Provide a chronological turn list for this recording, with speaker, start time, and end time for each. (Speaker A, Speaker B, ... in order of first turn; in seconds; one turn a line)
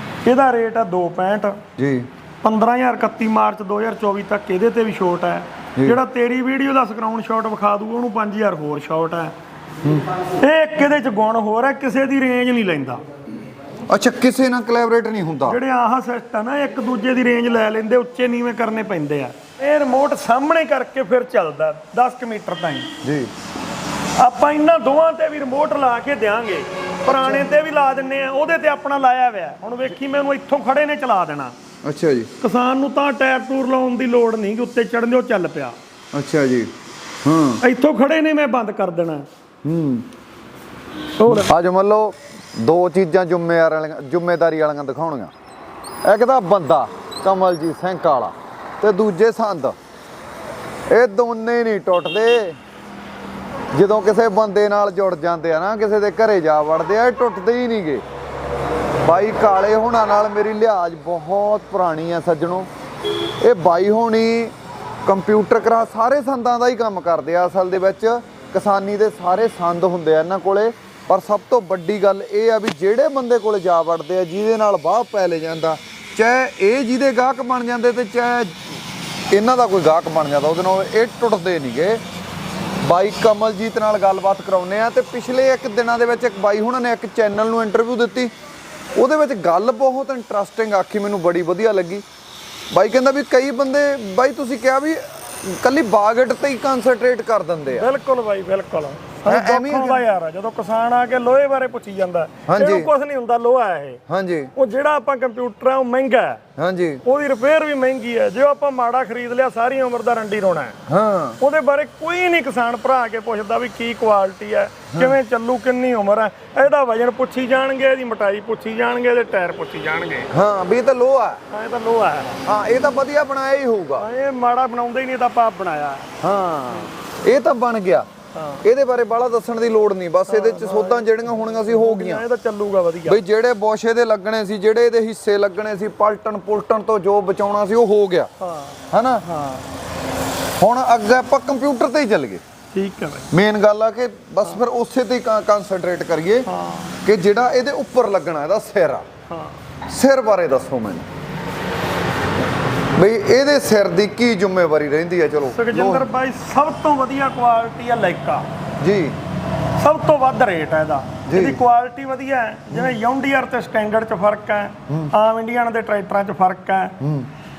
Speaker A: 0.2-1.6
Speaker B: 1.8-2.1
Speaker A: 2.4-9.3
Speaker A: 10.4-13.0
Speaker B: 13.9-15.6
Speaker A: 15.4-22.9
Speaker B: 23.0-23.3
Speaker A: 24.2-31.5
Speaker B: 27.1-27.4
Speaker B: 31.8-32.3
Speaker A: 32.4-35.8
Speaker B: 36.1-36.7
Speaker B: 37.2-37.6
Speaker A: 37.6-39.2
Speaker B: 39.6-40.0
Speaker A: 41.2-41.5
Speaker B: 41.2-45.3
Speaker B: 46.0-49.8
Speaker B: 50.9-52.6
Speaker B: 53.7-58.0
Speaker B: 59.0-62.7
Speaker B: 63.4-64.5
Speaker B: 65.0-78.6
Speaker B: 79.3-82.0
Speaker B: 82.8-88.3
Speaker B: 89.0-92.0
Speaker B: 92.7-97.9
Speaker A: 97.7-104.0
Speaker B: 99.2-100.1
Speaker B: 102.5-102.9
Speaker B: 104.1-104.5
Speaker A: 104.5-106.4
Speaker B: 106.6-107.0
Speaker A: 107.0-110.8
Speaker B: 110.9-111.4
Speaker A: 111.4-120.3
Speaker B: 120.3-121.4
Speaker A: 121.5-122.4
Speaker B: 122.5-124.0
Speaker A: 124.0-126.1
Speaker B: 126.2-128.1
Speaker A: 128.3-128.6
Speaker B: 128.6-132.2
Speaker A: 130.3-133.2
Speaker B: 133.1-138.3
Speaker A: 138.4-139.7
Speaker B: 138.9-139.2
Speaker B: 140.6-142.4
Speaker A: 142.7-143.3
Speaker B: 143.3-146.5
Speaker A: 146.5-147.0
Speaker B: 147.0-149.0
Speaker A: 149.3-149.6
Speaker B: 149.9-151.1
Speaker B: 152.9-156.1
Speaker A: 155.5-158.4
Speaker B: 158.8-159.2
Speaker A: 159.8-166.9
Speaker B: 161.3-161.6
Speaker B: 167.0-167.3